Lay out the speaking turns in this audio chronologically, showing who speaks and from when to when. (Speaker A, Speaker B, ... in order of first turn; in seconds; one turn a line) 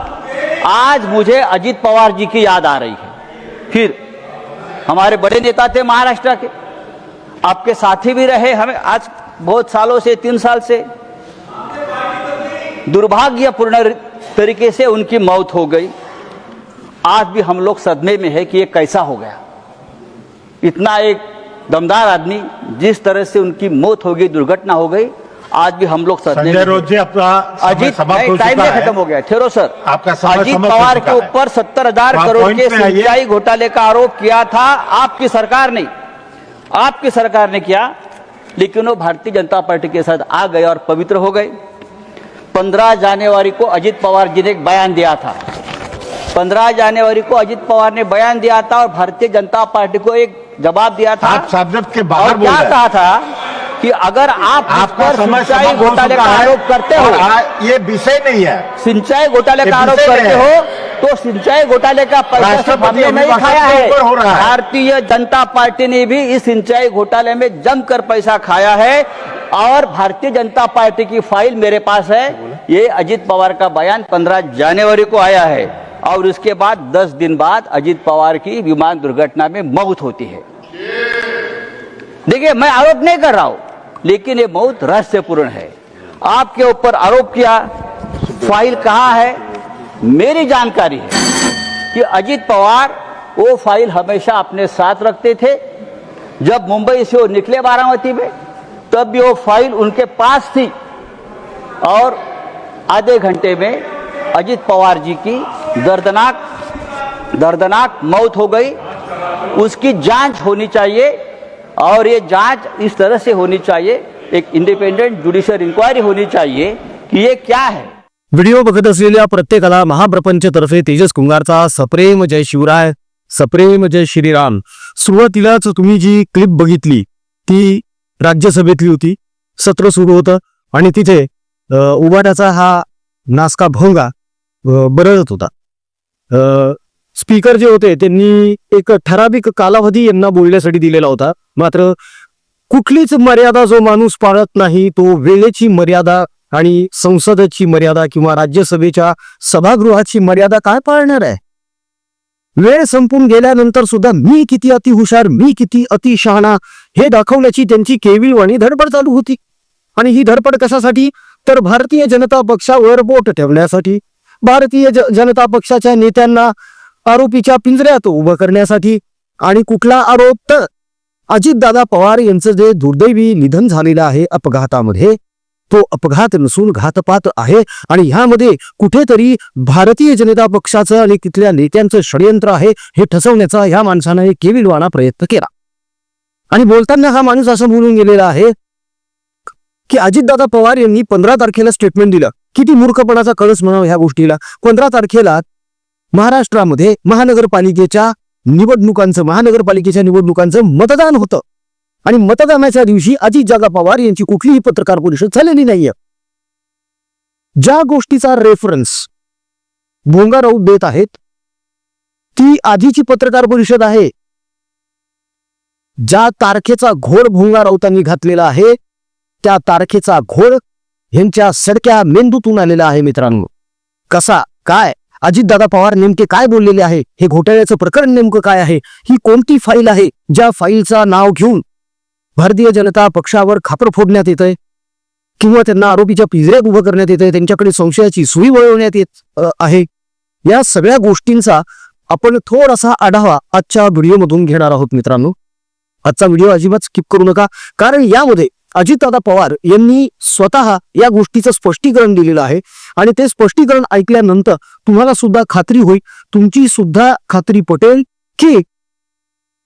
Speaker A: 0.7-3.1
Speaker A: 3.7-4.0
Speaker A: 4.9-6.5
Speaker A: 7.4-10.8
Speaker A: 12.8-15.9
Speaker A: 17.1-19.4
Speaker A: 20.6-26.9
Speaker B: 26.3-28.9
Speaker A: 27.6-35.9
Speaker B: 29.9-31.3
Speaker B: 32.1-33.1
Speaker A: 36.7-37.9
Speaker A: 38.6-41.5
Speaker A: 42.5-45.4
Speaker A: 46.3-51.5
Speaker B: 51.2-52.7
Speaker A: 52.1-53.3
Speaker A: 53.8-57.3
Speaker B: 54.7-58.7
Speaker A: 58.8-80.4
Speaker B: 59.6-60.5
Speaker B: 62.4-64.5
Speaker A: 82.3-87.6
Speaker A: 88.2-89.4
Speaker A: 90.0-91.2
Speaker A: 91.9-95.6
Speaker A: 96.4-98.3
Speaker A: 98.9-100.7
Speaker A: 101.8-102.2
Speaker A: 102.9-103.8
Speaker A: 104.3-106.4
Speaker A: 107.3-108.8
Speaker A: 109.5-111.1
Speaker A: 111.8-117.9
Speaker C: 118.3-134.1
Speaker C: 134.7-135.5
Speaker C: 136.3-142.0
Speaker C: 142.7-151.4
Speaker C: 152.6-159.4
Speaker C: 160.0-166.5
Speaker C: 167.1-170.7
Speaker C: 171.3-175.2
Speaker C: 175.7-185.5
Speaker C: 186.5-188.5
Speaker C: 189.9-195.4
Speaker C: 196.1-201.4
Speaker C: 202.0-205.9
Speaker C: 207.6-209.1
Speaker C: 210.1-211.2
Speaker C: 212.3-214.1
Speaker C: 216.0-218.8
Speaker C: 219.4-220.6
Speaker C: 221.1-223.5
Speaker C: 224.1-231.6
Speaker C: 232.4-234.6
Speaker C: 235.4-239.9
Speaker C: 240.5-245.3
Speaker C: 246.0-258.6